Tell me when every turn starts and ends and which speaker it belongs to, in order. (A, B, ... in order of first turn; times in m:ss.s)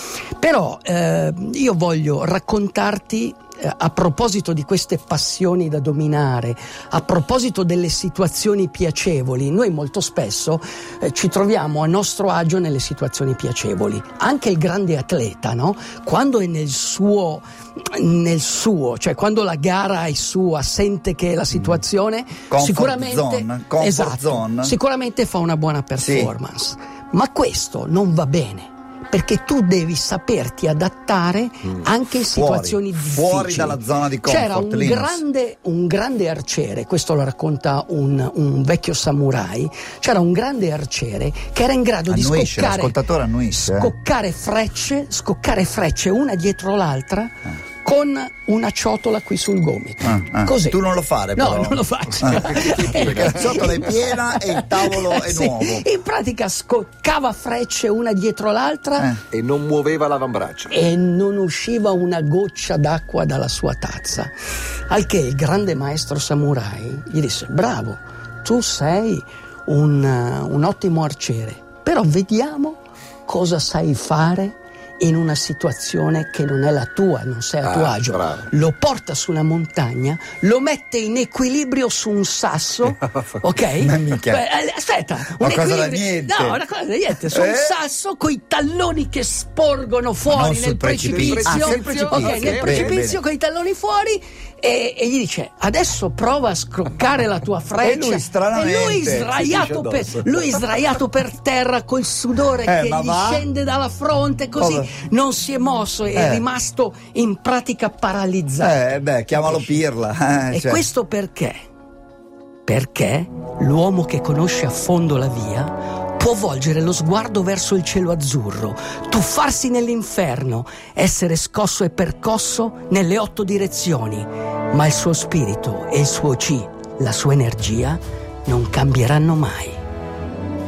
0:00.4-0:43.0 A
0:22.5-0:24.8 B
0:26.0-0:26.3 B
0:32.3-0:35.2 B
0:42.1-0:43.9 B
0:43.5-0:50.8 A
0:50.0-0:55.9 B
0:51.4-0:59.2 A
0:52.2-0:53.7 C
0:59.3-1:00.8 C
1:00.7-1:04.3 A
1:04.9-1:49.8 A
1:17.6-1:18.5 C
1:23.8-1:24.4 B
1:25.4-1:26.6 B
1:27.3-1:27.8 B
1:30.3-1:33.2 B
1:31.0-1:33.0 C
1:37.8-1:39.3 B
1:39.1-1:40.7 C
1:42.6-1:43.5 B
1:44.6-1:44.9 B
1:46.2-1:46.4 B
1:48.6-1:50.8 B
1:50.5-1:51.6 A
1:52.7-2:09.8 A